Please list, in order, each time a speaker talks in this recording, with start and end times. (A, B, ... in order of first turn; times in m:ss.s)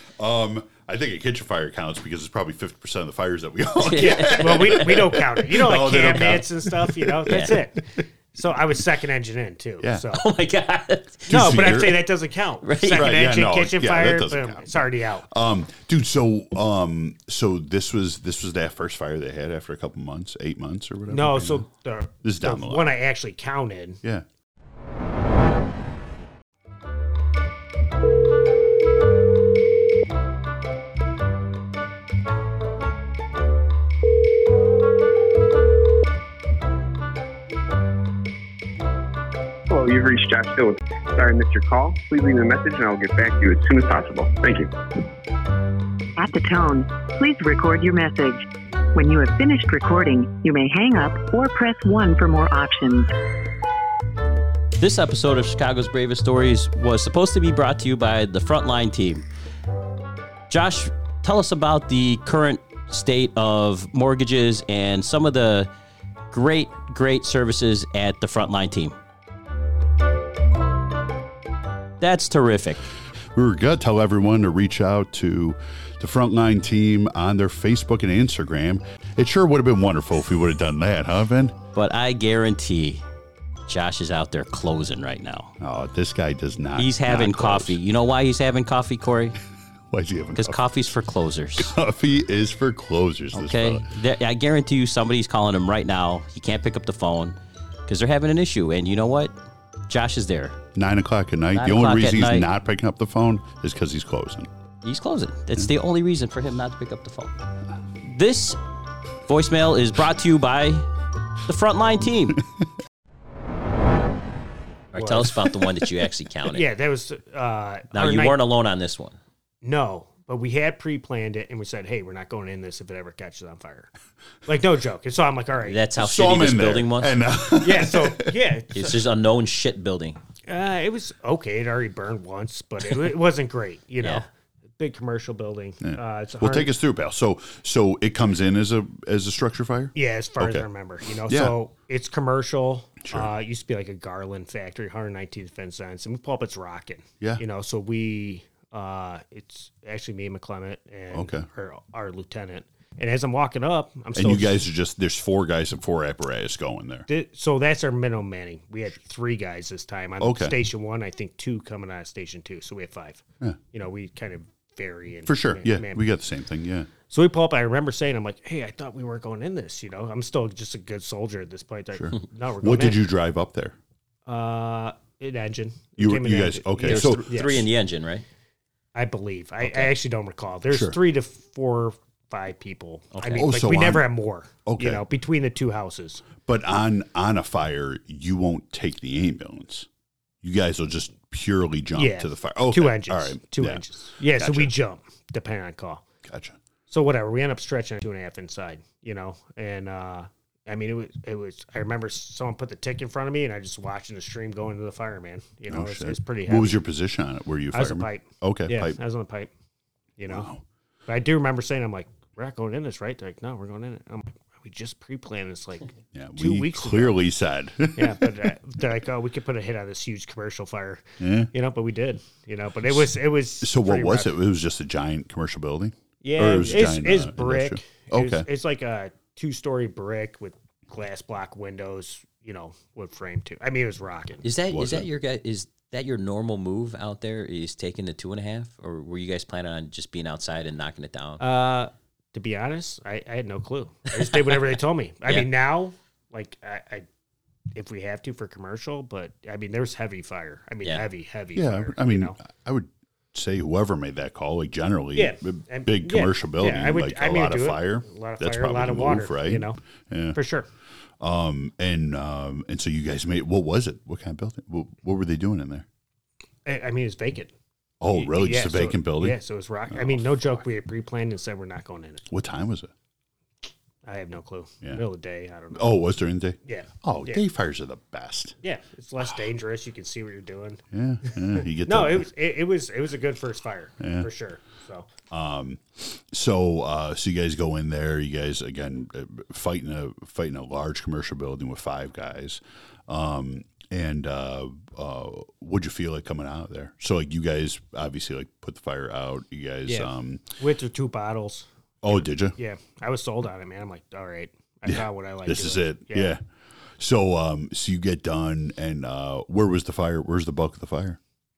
0:00.2-0:07.3 A
0:03.8-0:05.0 B
0:03.9-0:10.2 C
0:07.3-0:07.6 B
0:09.8-0:10.1 A
0:10.1-0:11.5 B
0:11.3-0:12.1 A
0:11.3-0:15.3 C
0:12.6-0:13.2 B
0:12.9-0:21.6 A
0:21.1-0:24.0 C
0:22.2-0:22.9 A
0:39.7-0:44.8 D
0:46.2-0:53.1 E
0:54.8-0:59.2 B
1:00.5-1:05.7 B
1:06.3-1:09.0 B
1:12.0-1:12.8 B
1:13.3-1:21.6 A
1:21.7-1:23.0 B
1:23.7-1:25.6 B
1:25.6-1:27.8 A
1:26.8-1:29.4 B
1:29.9-1:30.8 A
1:30.4-1:31.8 B
1:31.6-1:33.9 A
1:33.3-1:39.4 B
1:39.9-1:40.6 B
1:40.8-1:44.5 A
1:41.6-1:42.5 B
1:44.8-1:47.3 B
1:48.0-1:48.6 B
1:49.3-1:50.9 B
1:51.4-1:52.4 B
1:54.9-1:56.7 B
1:55.0-1:55.3 C
1:56.5-1:58.4 C
1:57.9-1:59.2 B
1:59.6-2:03.9 C
2:04.5-2:05.8 C
2:05.7-2:07.1 B
2:06.0-2:08.3 A
2:07.6-2:09.0 C
2:08.7-2:10.2 B
2:10.5-2:14.3 C
2:14.0-2:14.3 B
2:14.8-2:16.7 C
2:15.8-2:20.7 A
2:20.0-2:34.6 C
2:21.3-2:21.6 A
2:23.0-2:23.3 A
2:31.1-2:31.5 A
2:34.2-2:37.1 A
2:37.1-2:46.0 C
2:40.2-2:40.6 A
2:45.3-2:46.9 A
2:47.1-2:53.0 C
2:51.9-2:53.8 A
2:54.3-2:57.7 C
2:56.0-2:57.7 A
2:56.8-2:58.2 B
2:59.0-3:06.3 C
2:59.6-2:59.9 B
3:00.7-3:01.0 A
3:03.1-3:03.5 B
3:03.4-3:04.1 A
3:04.7-3:05.0 A
3:06.5-3:09.9 A
3:10.4-3:14.7 A
3:12.0-3:16.1 C
3:16.2-3:16.6 A
3:16.9-3:26.8 C
3:25.7-3:29.0 A
3:27.7-3:29.5 C
3:30.2-3:30.5 C
3:30.3-3:30.6 A
3:31.1-3:37.2 C
3:36.1-3:38.5 A
3:38.0-3:44.4 C
3:41.2-3:41.5 A
3:43.6-3:48.5 A
3:46.2-3:54.4 C
3:54.4-4:01.4 B
3:54.7-3:55.1 A
4:01.4-4:07.1 C
4:07.8-4:12.4 C
4:11.5-4:20.4 A
4:15.2-4:19.8 C
4:20.3-4:20.7 C
4:21.2-4:25.9 A
4:26.6-4:27.5 C
4:28.0-4:29.4 A
4:28.1-4:32.3 C
4:29.9-4:30.2 A
4:32.3-4:32.9 A
4:34.0-4:36.0 C
4:35.7-4:38.6 A
4:36.6-4:37.4 C
4:38.6-4:45.1 C
4:40.9-4:42.3 A
4:44.0-4:44.3 A
4:45.3-5:00.6 A
4:59.9-5:06.4 C
5:02.0-5:02.6 A
5:04.9-5:06.4 A
5:07.0-5:11.2 A